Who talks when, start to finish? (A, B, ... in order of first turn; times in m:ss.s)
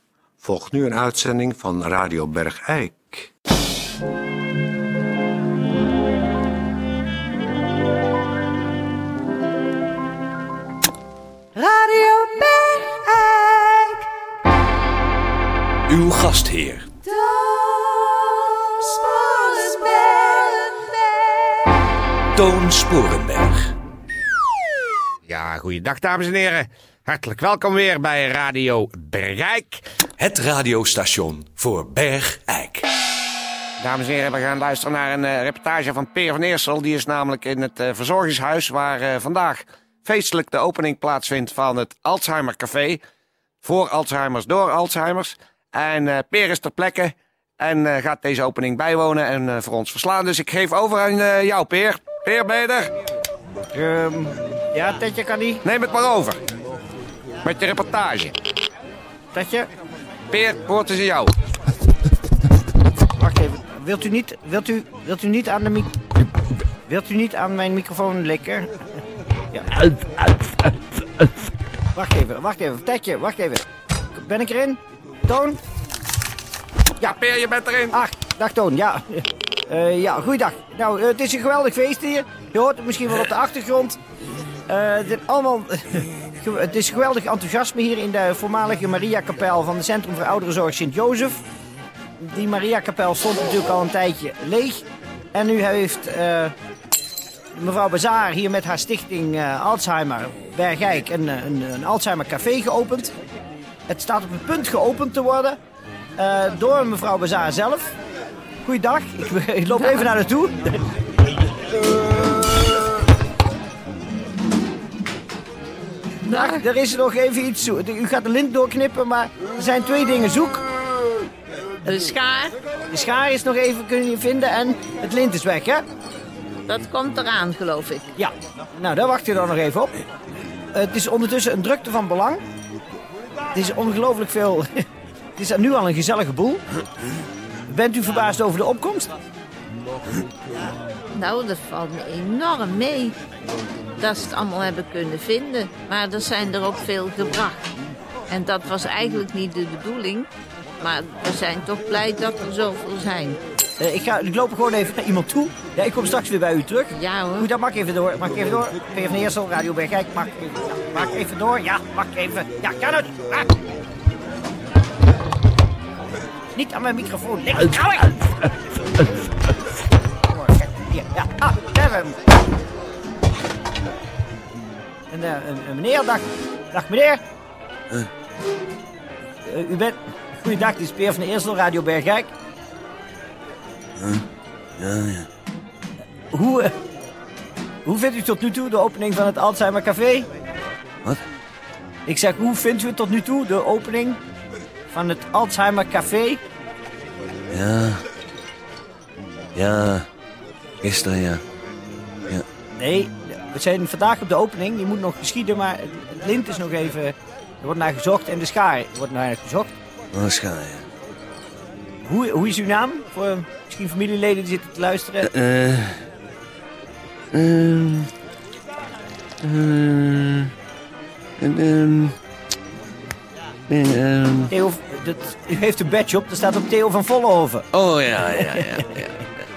0:00.4-0:03.3 A
0:15.9-0:16.9 B
0:22.4-0:23.7 B
0:25.3-0:29.8 C
0:30.2-0:32.9 B
0:33.8-0:34.8 D
0:33.9-0:39.5 C
0:35.8-0:36.1 D
0:38.6-0:40.2 D
0:40.1-0:42.8 C
0:42.5-0:43.0 D
0:43.6-0:44.0 D
0:43.9-0:52.9 C
0:52.0-0:52.3 D
0:53.7-0:55.6 E
0:55.6-0:56.4 C
0:57.6-0:58.3 C
0:59.3-0:59.7 E
1:00.3-1:01.3 C
1:03.2-1:05.9 E
1:06.9-1:08.7 E
1:09.5-1:09.8 E
1:12.0-1:15.6 E
1:17.0-1:18.0 C
1:17.9-1:24.0 E
1:24.7-1:31.4 E
1:32.2-1:36.5 E
1:37.6-1:43.1 E
1:43.9-1:45.6 E
1:46.2-1:48.0 E
1:48.6-1:50.9 E
1:49.7-1:50.1 F
1:56.2-1:56.6 F
1:56.3-2:00.6 E
2:01.8-2:02.6 F
2:02.9-2:05.8 E
2:06.7-2:08.1 F
2:08.2-2:09.9 E
2:10.7-2:12.4 E
2:13.5-2:14.8 E
2:15.4-2:16.6 E
2:17.7-2:19.1 E
2:21.1-2:23.2 F
2:24.0-2:27.7 F
2:28.3-2:33.4 F
2:33.8-2:43.5 E
2:36.9-2:37.5 F
2:46.5-2:48.3 E
2:50.3-2:52.2 E
2:55.1-2:57.2 E
2:59.4-3:02.3 E
3:04.8-3:05.2 D
3:06.3-3:06.7 E
3:07.8-3:10.3 E
3:12.1-3:14.2 E
3:14.9-3:16.4 E
3:17.5-3:18.0 D
3:19.6-3:20.1 D
3:20.8-3:21.4 D
3:22.8-3:29.7 E
3:30.1-3:30.8 D
3:32.0-3:35.3 E
3:35.2-3:36.0 D
3:37.3-3:38.1 D
3:39.4-3:40.5 D
3:41.4-3:42.2 D
3:43.7-3:44.5 D
3:44.5-3:47.7 E
3:47.7-3:49.3 D
3:48.4-3:48.9 E